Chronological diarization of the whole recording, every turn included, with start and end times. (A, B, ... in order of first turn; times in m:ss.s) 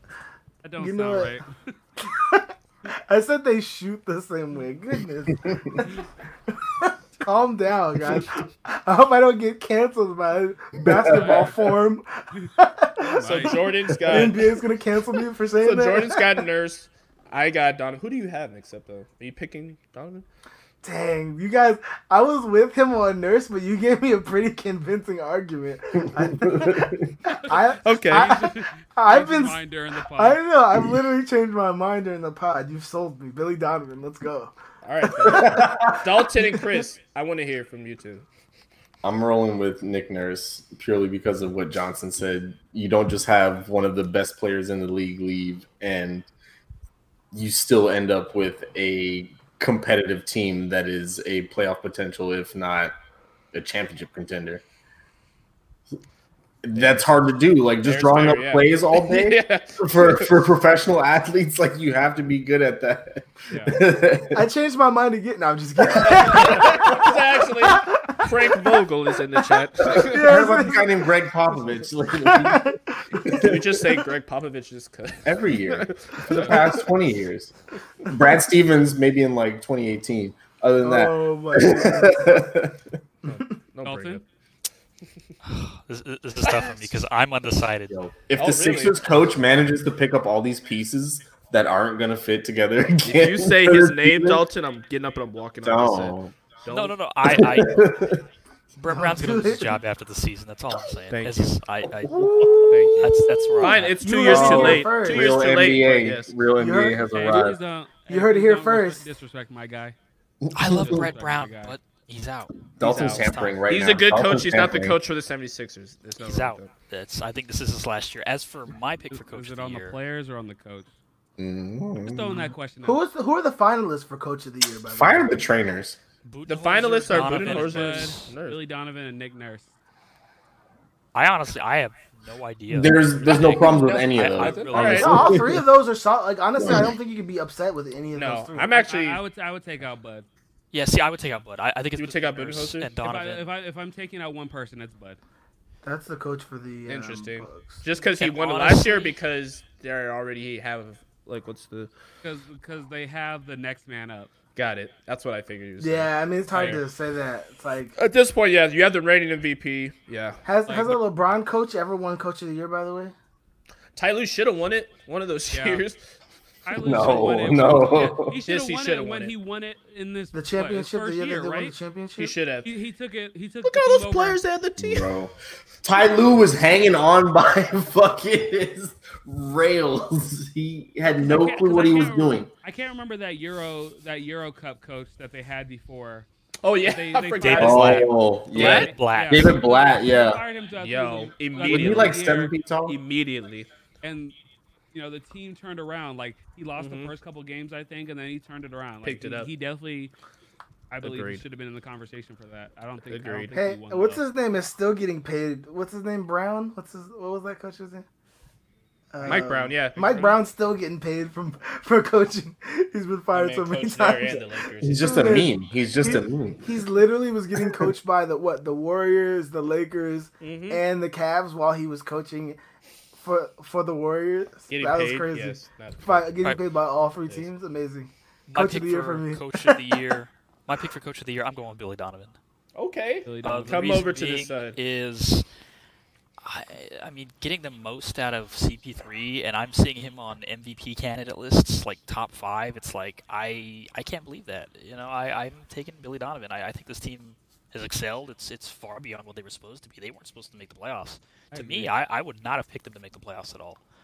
0:00.6-0:01.5 A
0:00.8-0:01.4 B
0:02.0-0:02.5 B
0:03.1-0:05.9 B
0:05.8-0:06.1 A
0:06.5-0:16.2 B
0:10.8-0:11.3 C
0:11.1-0:11.7 A
0:13.1-0:13.6 A
0:13.2-0:14.6 D
0:15.6-0:20.2 D
0:20.8-0:29.6 B
0:27.8-0:28.4 D
0:28.3-0:30.4 A
0:30.1-0:34.5 B
0:34.8-0:38.3 D
0:35.2-0:36.0 C
0:35.3-0:35.6 B
0:39.0-0:46.3 C
0:47.3-0:52.9 C
0:53.5-0:54.6 C
0:56.6-1:04.4 C
0:57.8-1:00.4 D
1:03.5-1:03.8 A
1:04.3-1:07.1 B
1:06.0-1:06.3 C
1:06.3-1:10.3 D
1:07.6-1:07.9 B
1:09.9-1:12.7 C
1:10.1-1:11.0 B
1:12.2-1:12.8 B
1:13.3-1:16.9 D
1:15.2-1:17.5 C
1:18.1-1:22.8 C
1:20.8-1:22.4 B
1:23.3-1:24.2 D
1:23.8-1:24.2 A
1:25.4-1:28.0 E
1:27.9-1:34.4 C
1:28.4-1:29.1 D
1:33.0-1:37.0 D
1:35.6-1:36.4 C
1:36.7-1:37.9 E
1:37.2-1:38.2 C
1:38.8-1:44.0 E
1:38.9-1:39.8 B
1:41.1-1:41.6 D
1:42.0-1:42.8 C
1:42.7-1:46.4 D
1:44.0-1:45.3 B
1:44.3-1:47.6 C
1:44.4-1:44.7 A
1:46.5-1:47.0 B
1:47.0-1:50.0 A
1:48.1-1:49.1 B
1:50.5-1:51.1 C
1:50.6-1:53.7 E
1:50.7-1:51.8 A
1:52.8-1:55.0 C
1:52.8-1:56.7 D
1:56.2-2:00.0 E
1:59.1-2:00.9 A
2:01.4-2:02.5 C
2:02.0-2:03.0 A
2:02.8-2:05.4 B
2:04.9-2:06.0 C
2:06.2-2:08.3 E
2:06.5-2:08.6 D
2:06.6-2:09.7 A
2:11.1-2:15.4 E
2:12.7-2:15.6 C
2:13.3-2:15.2 D
2:14.8-2:18.8 B
2:16.6-2:16.9 C
2:18.2-2:19.2 D
2:18.8-2:20.3 A
2:20.7-2:23.5 E
2:22.0-2:22.9 D
2:22.9-2:25.2 A
2:25.8-2:27.9 B
2:26.9-2:31.9 D
2:28.2-2:29.2 E
2:32.2-2:34.3 A
2:34.6-2:36.8 D
2:35.8-2:38.0 B
2:38.0-2:40.5 D
2:40.4-2:43.1 B
2:40.6-2:41.0 A
2:44.0-2:46.0 D
2:45.5-2:45.9 A
2:46.7-2:51.8 A
2:46.8-2:48.4 C
2:48.4-2:49.3 D
2:50.3-2:52.4 B
2:52.2-2:52.7 D
2:52.6-2:54.4 A
2:53.6-2:55.1 D
2:54.8-3:02.5 C
3:01.1-3:06.3 A
3:06.6-3:08.9 D
3:06.8-3:08.1 A
3:07.5-3:10.4 C
3:07.6-3:09.6 E
3:08.8-3:12.5 A
3:10.8-3:12.3 D
3:11.6-3:13.0 C
3:12.9-3:13.7 D
3:14.0-3:14.4 A
3:14.9-3:20.1 A
3:16.8-3:17.1 D
3:19.0-3:19.5 D
3:20.9-3:24.2 A
3:21.0-3:21.4 D
3:23.1-3:23.6 D
3:23.5-3:28.0 B
3:29.1-3:42.6 B
3:29.2-3:30.4 D
3:33.3-3:35.2 D
3:34.8-3:36.7 C
3:40.4-3:40.8 D
3:43.2-3:49.8 B
3:44.7-3:46.5 D
3:48.5-3:52.4 E
3:52.8-3:54.8 D
3:53.3-3:54.0 A
3:53.4-3:55.5 E
3:56.4-4:13.8 E
4:11.5-4:11.9 A